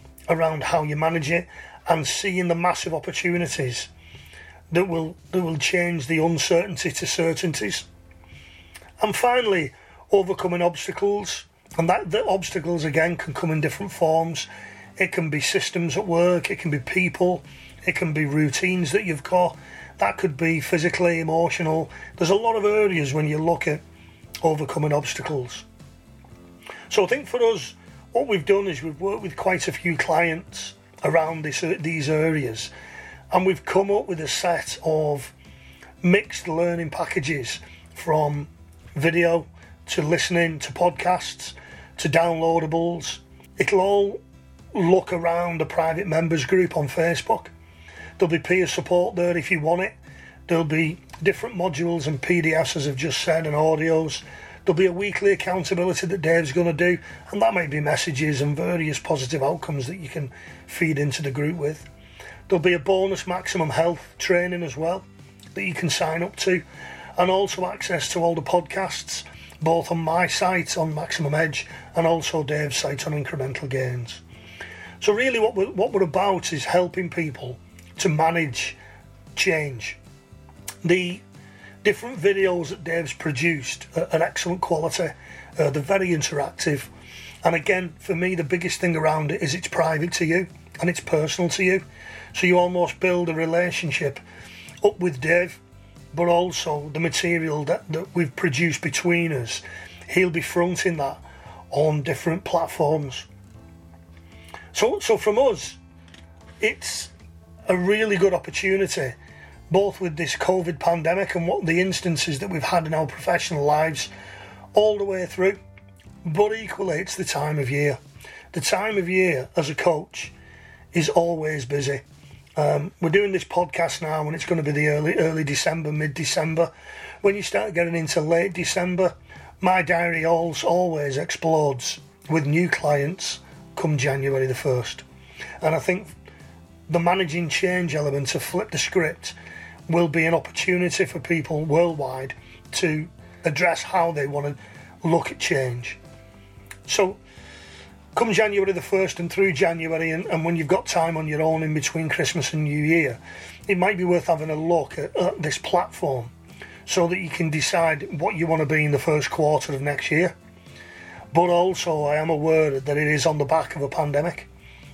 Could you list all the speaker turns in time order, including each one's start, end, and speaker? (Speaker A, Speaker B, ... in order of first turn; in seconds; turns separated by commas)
Speaker A: 0.3-3.9, Speaker A: 4.7-7.9, Speaker A: 9.0-23.8, Speaker A: 24.4-25.7, Speaker A: 26.9-32.7, Speaker A: 33.3-35.3, Speaker A: 36.0-44.2, Speaker A: 44.7-47.5, Speaker A: 48.2-49.9, Speaker A: 50.5-61.9, Speaker A: 62.5-66.6, Speaker A: 67.2-74.2, Speaker A: 75.0-78.8, Speaker A: 79.3-80.0, Speaker A: 80.8-81.2, Speaker A: 81.8-86.9, Speaker A: 87.4-94.2, Speaker A: 94.8-95.6, Speaker A: 96.1-103.3, Speaker A: 104.7-105.8, Speaker A: 106.6-107.1, Speaker A: 107.7-109.2, Speaker A: 109.7-114.1, Speaker A: 114.7-115.6, Speaker A: 116.2-118.0, Speaker A: 118.5-120.3, Speaker A: 120.9-122.0, Speaker A: 122.6-135.0, Speaker A: 135.6-136.1, Speaker A: 136.9-139.3, Speaker A: 139.9-146.0, Speaker A: 146.9-147.2, Speaker A: 148.1-156.3, Speaker A: 156.8-160.3, Speaker A: 161.3-164.5